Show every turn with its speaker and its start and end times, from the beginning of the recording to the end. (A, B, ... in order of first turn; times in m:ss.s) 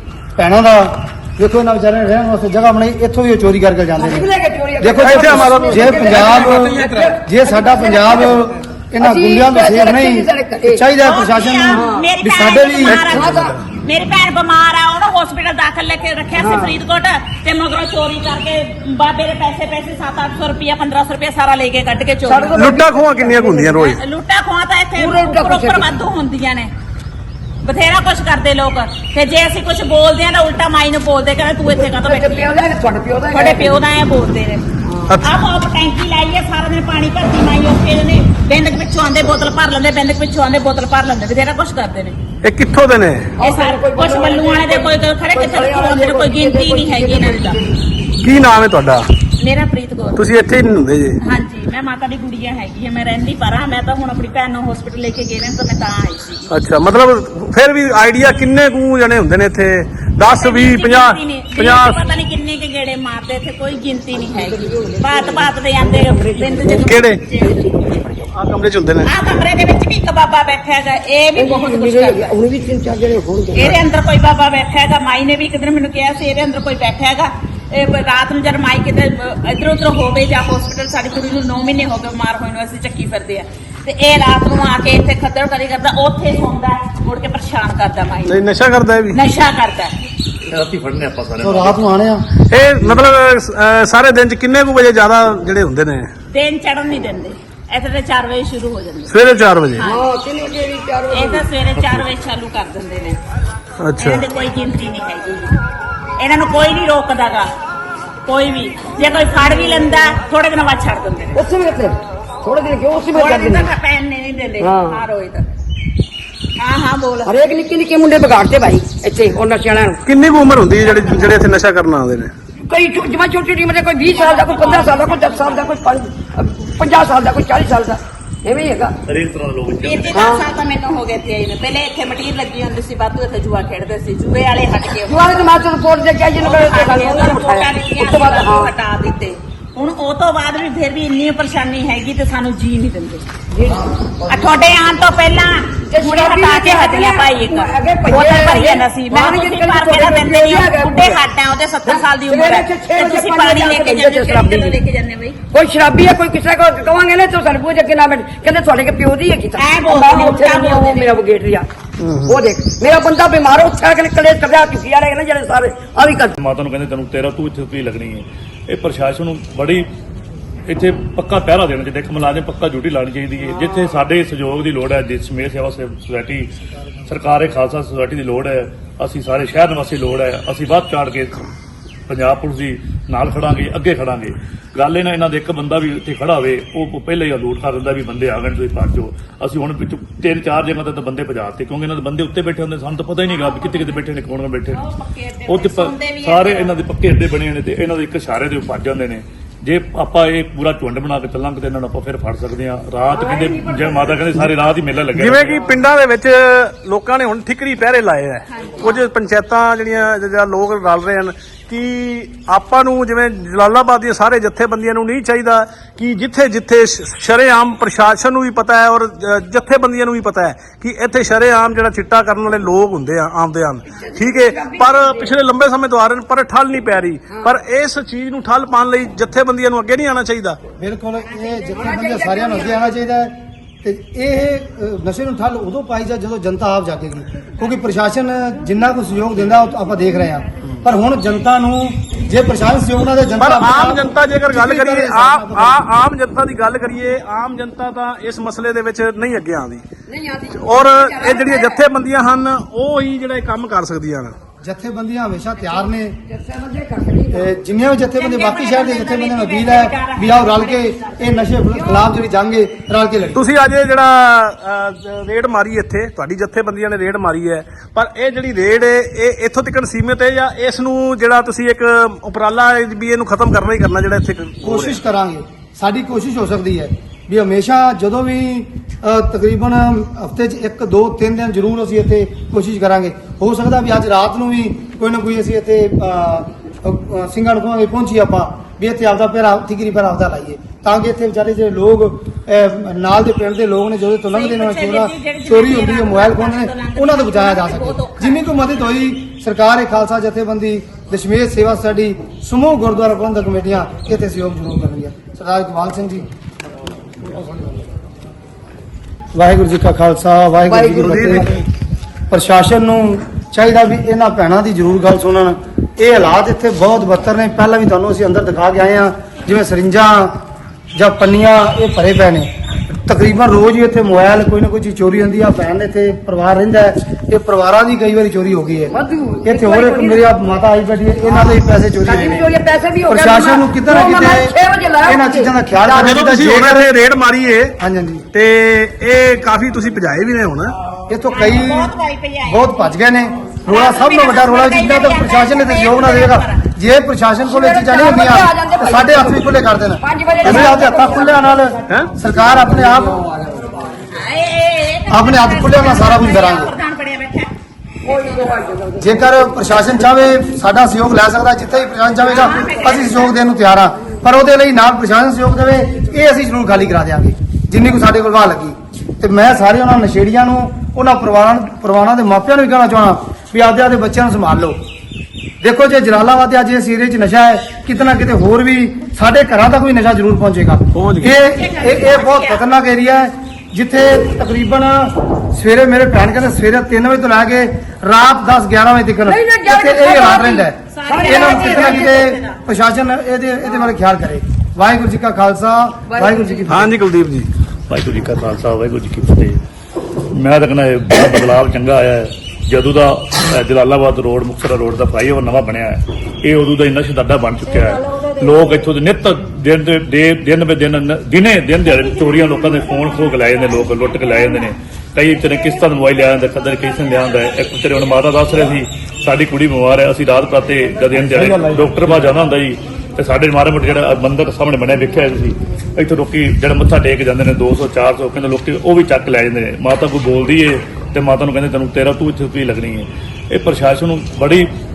0:00.4-0:04.3 A
0:04.0-0:10.8 B
0:04.8-0:13.1 A
0:05.0-0:07.2 C
0:11.0-0:22.7 D
0:11.7-0:12.1 B
0:12.8-0:13.6 C
0:13.1-0:13.5 B
0:16.4-0:16.8 B
0:22.2-0:23.9 B
0:22.5-0:24.0 C
0:23.8-0:26.7 D
0:25.0-0:25.9 B
0:27.6-0:32.6 D
0:31.7-0:33.8 B
0:33.3-0:34.6 D
0:35.1-0:35.3 C
0:35.2-0:42.2 D
0:42.4-0:43.4 C
0:43.4-0:47.8 B
0:43.4-0:47.6 D
0:48.2-0:49.1 C
0:49.4-0:50.3 D
0:50.2-0:51.2 C
0:51.2-0:56.5 D
0:56.5-1:02.0 C
1:00.3-1:07.5 D
1:04.4-1:08.3 B
1:06.7-1:07.2 C
1:08.3-1:09.1 C
1:09.0-1:12.3 D
1:11.4-1:13.8 B
1:13.5-1:28.4 D
1:28.2-1:29.2 C
1:29.1-1:29.9 D
1:30.5-1:31.8 E
1:31.4-1:32.2 A
1:32.5-1:36.1 C
1:36.3-1:39.2 D
1:39.1-1:39.8 C
1:39.7-1:40.0 D
1:39.8-1:41.4 B
1:41.1-1:43.2 D
1:43.8-1:44.2 C
1:44.0-1:45.5 D
1:46.2-1:47.5 D
1:48.2-1:51.4 D
1:51.4-1:53.7 B
1:53.1-1:55.4 D
1:54.6-1:55.0 B
1:56.6-1:57.3 D
1:57.2-2:00.0 B
2:00.0-2:02.3 C
2:02.6-2:09.0 B
2:04.0-2:05.7 D
2:09.0-2:10.2 E
2:09.8-2:15.5 D
2:10.1-2:10.4 B
2:15.1-2:18.7 B
2:16.4-2:23.2 D
2:23.5-2:23.9 B
2:24.3-2:35.4 D
2:25.9-2:31.2 B
2:31.8-2:34.7 B
2:35.5-2:41.7 B
2:39.6-2:41.2 D
2:42.0-2:42.4 C
2:42.2-2:46.3 B
2:46.4-2:49.9 E
2:50.7-2:56.5 E
2:57.0-3:01.4 E
3:02.1-3:14.8 E
3:13.5-3:13.8 D
3:14.7-3:16.8 D
3:15.5-3:25.7 E
3:25.1-3:50.6 C
3:28.5-3:28.9 D
3:43.9-3:45.3 B
3:47.3-3:47.5 B
3:50.8-4:05.8 A
3:51.3-3:52.9 B
4:03.4-4:09.8 C
4:10.1-4:11.8 B
4:10.5-4:14.4 C
4:14.6-4:16.2 A
4:15.6-4:17.5 B
4:17.3-4:23.4 A
4:18.2-4:21.4 D
4:21.7-4:22.1 B
4:23.3-4:35.0 C
4:34.6-5:06.3 A
4:54.3-4:58.4 D
5:09.3-5:11.5 A
5:10.7-5:11.6 B
5:10.9-5:11.4 C
5:12.3-5:20.4 A
5:20.9-5:22.5 A
5:23.0-5:32.5 A
5:28.9-5:30.3 B
5:32.0-5:36.1 B
5:33.1-5:36.9 A
5:35.9-5:37.8 C
5:37.8-5:38.2 A
5:38.3-5:40.8 C
5:41.1-5:41.9 A
5:41.3-5:42.7 D
5:42.4-5:53.3 A
5:43.7-5:46.7 D
5:47.5-5:49.5 B
5:50.0-5:51.6 B
5:50.4-5:50.8 C
5:51.9-5:52.1 C
5:53.3-5:53.7 B
5:54.1-5:57.5 D
5:55.1-5:56.7 A
5:58.0-5:59.3 B
5:59.0-6:14.8 A
6:02.3-6:03.4 D
6:15.6-6:36.9 A
6:20.9-6:21.4 C
6:21.4-6:22.6 D
6:29.2-6:32.1 B
6:30.9-6:32.6 D
6:33.6-6:34.0 B
6:36.1-6:36.8 B
6:36.7-6:37.5 C
6:37.9-6:39.6 E
6:40.3-7:14.7 E
7:01.2-7:02.1 A